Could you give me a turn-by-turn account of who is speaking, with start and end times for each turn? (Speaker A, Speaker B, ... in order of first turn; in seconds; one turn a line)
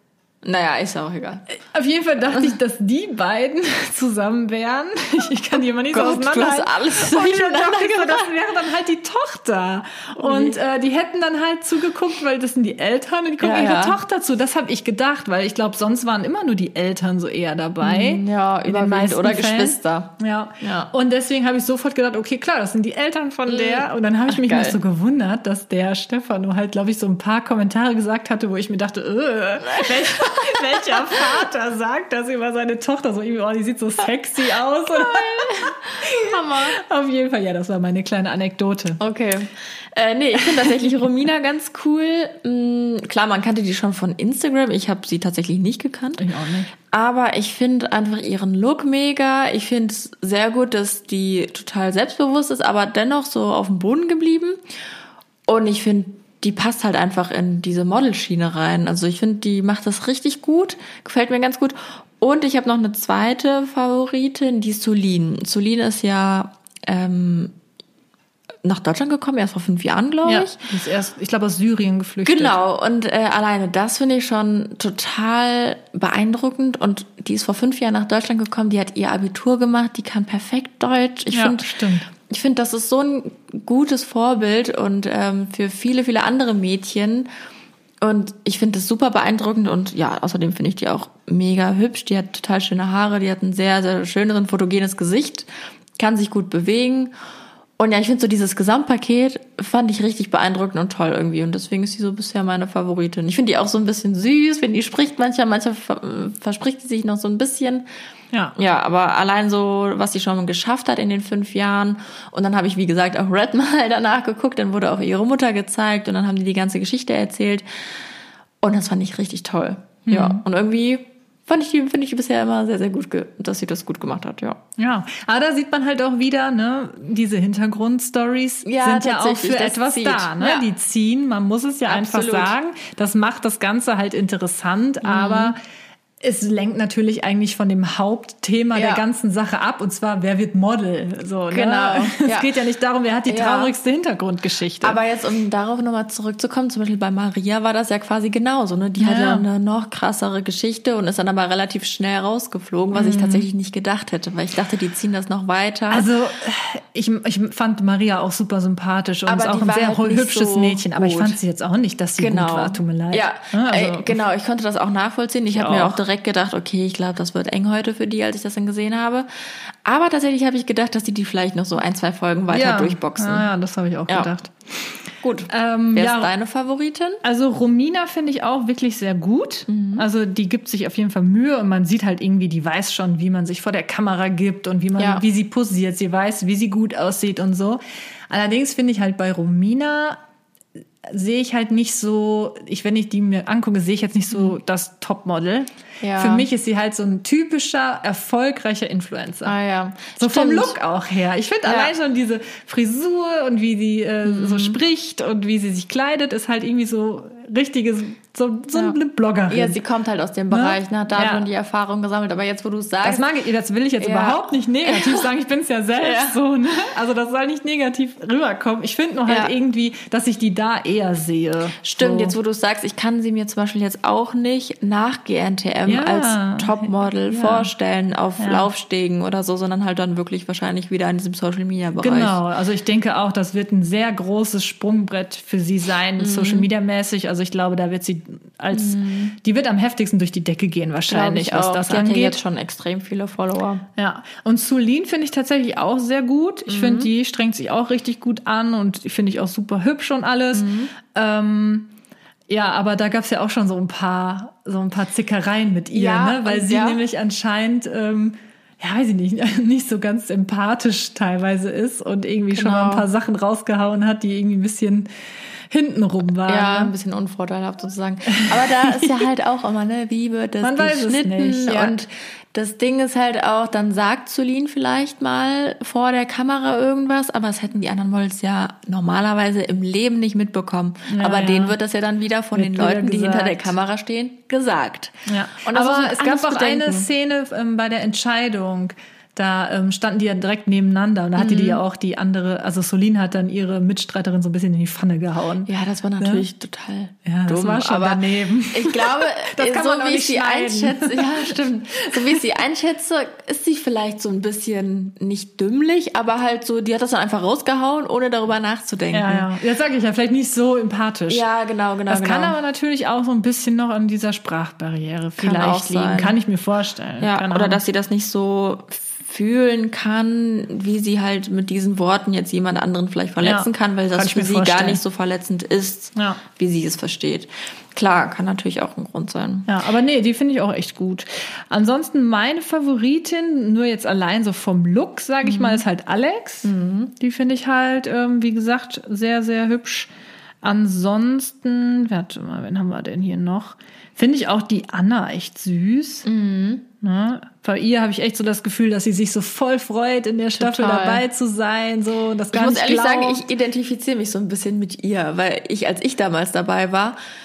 Speaker A: 0.4-1.4
Speaker B: 1.5-39.0
Speaker A: 5.9-8.3
Speaker A: 10.2-10.6
Speaker A: 13.4-14.0
Speaker A: 17.8-20.9
Speaker A: 23.5-24.8
Speaker A: 29.6-31.4
Speaker A: 34.9-36.8
Speaker A: 39.0-46.2
Speaker B: 46.2-46.7
Speaker A: 46.9-54.6
Speaker A: 55.5-67.5
Speaker A: 68.6-70.6
Speaker B: 70.2-72.5
Speaker A: 72.2-87.3
Speaker B: 81.3-82.1
Speaker A: 88.0-97.1
Speaker A: 97.8-107.8
Speaker A: 108.5-117.6
Speaker A: 118.6-124.6
Speaker B: 120.0-120.4
Speaker B: 124.8-135.6
Speaker A: 128.6-130.7
Speaker A: 131.8-132.5
Speaker A: 135.0-135.5
Speaker B: 136.2-145.0
Speaker A: 138.7-139.0
Speaker A: 141.5-142.5
Speaker A: 143.3-143.7
Speaker A: 144.8-156.1
Speaker B: 149.0-149.4
Speaker B: 152.9-153.4
Speaker B: 155.9-164.2
Speaker A: 159.2-161.4
Speaker A: 162.2-173.5
Speaker B: 165.5-166.0
Speaker B: 172.5-175.0
Speaker A: 175.2-177.2
Speaker B: 175.5-176.3
Speaker B: 177.2-190.2
Speaker A: 179.7-180.0
Speaker A: 185.0-185.2
Speaker B: 191.1-199.5
Speaker A: 196.0-196.5
Speaker A: 199.4-200.7
Speaker B: 200.2-209.8
Speaker A: 201.6-201.9
Speaker A: 204.2-204.8
Speaker A: 209.5-213.2
Speaker B: 210.5-211.4
Speaker B: 213.0-222.3
Speaker A: 214.0-215.3
Speaker A: 216.0-216.4
Speaker A: 219.3-219.5
Speaker A: 221.9-232.3
Speaker B: 225.9-227.7
Speaker B: 228.4-228.6
Speaker B: 232.0-242.4
Speaker A: 236.2-236.7
Speaker A: 238.7-239.3
Speaker A: 241.1-243.8
Speaker B: 244.0-251.9
Speaker A: 246.7-247.1
Speaker A: 250.5-250.9
Speaker B: 252.5-265.1
Speaker A: 255.9-257.0
Speaker A: 262.5-263.1
Speaker B: 265.7-266.9
Speaker A: 266.5-287.1
Speaker B: 268.3-269.1
Speaker B: 270.6-271.9
Speaker B: 281.1-281.8
Speaker B: 282.5-283.7
Speaker B: 285.3-296.4
Speaker A: 291.4-291.8
Speaker A: 295.7-309.5
Speaker B: 297.2-302.4
Speaker B: 309.1-311.4
Speaker A: 311.3-312.5
Speaker B: 312.1-317.8
Speaker A: 315.4-316.4
Speaker A: 317.2-329.7
Speaker B: 323.4-325.0
Speaker B: 326.1-326.4
Speaker B: 329.7-340.1
Speaker A: 335.4-335.8
Speaker A: 336.6-337.1
Speaker B: 340.6-346.2
Speaker A: 346.2-346.9
Speaker B: 347.0-353.4
Speaker A: 350.6-351.2
Speaker A: 352.5-357.2